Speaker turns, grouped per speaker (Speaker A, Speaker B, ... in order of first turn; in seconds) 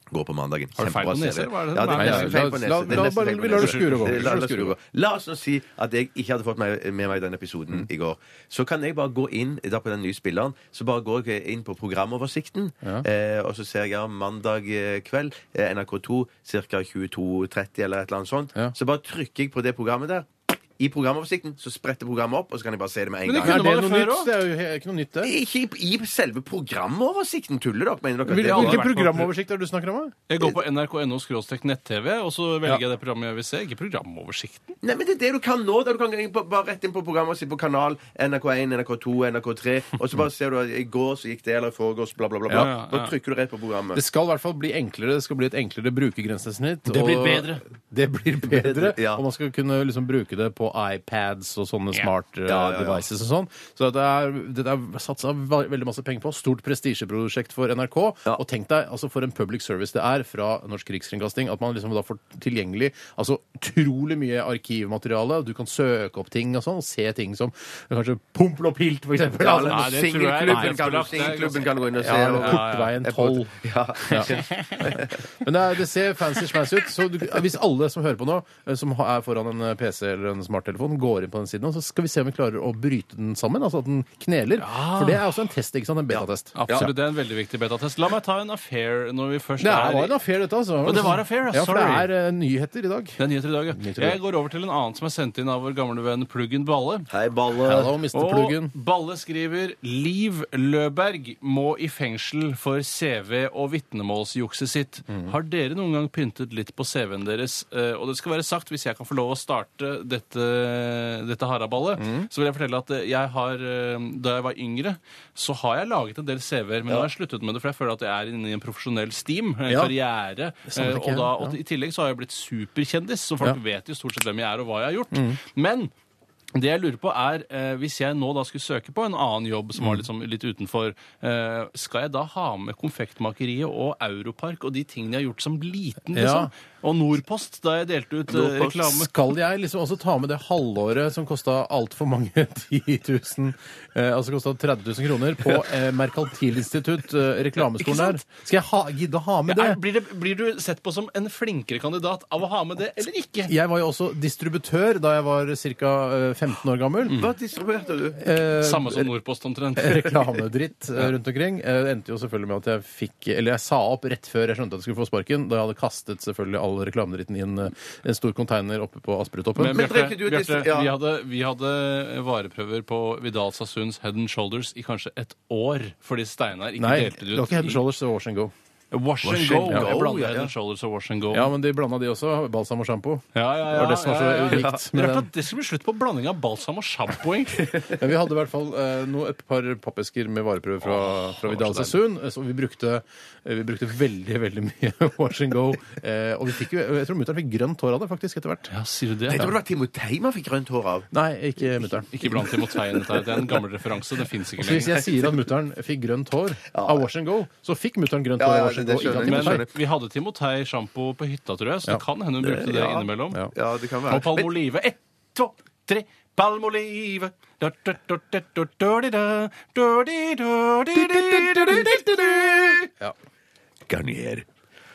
Speaker A: 0.1-23.7, 25.2-28.9, 34.8-44.0, 48.4-49.2, 52.5-53.0, 69.4-75.2, 86.1-86.9, 97.1-97.9, 157.1-158.2, 169.7-170.9, 179.2-180.5, 184.5-184.8, 199.3-201.1, 206.7-207.0, 208.4-209.7, 212.4-214.5, 223.9-224.5
Speaker B: 0.8-4.4, 23.2-24.3, 28.3-29.3, 30.3-34.8, 42.5-43.1, 46.9-47.6, 69.7-73.1, 74.2-74.9, 84.6-85.2, 86.5-90.2, 90.8-92.1, 93.2-97.1, 98.1-125.9, 126.5-139.1, 147.8-148.2, 149.5-153.5, 157.1-157.3, 158.6-160.3, 169.6-177.8, 178.9-181.5, 183.3-187.7, 190.8-192.0, 198.7-199.6, 202.1-205.0, 209.0-213.5, 214.1-222.9
Speaker C: 1.9-4.8, 23.4-25.3, 28.3-30.1, 44.0-71.0, 72.0-86.9, 89.6-93.2, 93.7-94.2, 97.7-98.7, 112.0-112.3, 120.7-121.6, 125.1-125.4, 129.8-130.0, 136.1-136.5, 138.6-149.8, 153.5-157.2, 158.2-159.1, 159.8-169.8, 176.8-178.5, 181.3-185.3, 187.9-198.7, 201.1-202.6, 204.6-209.7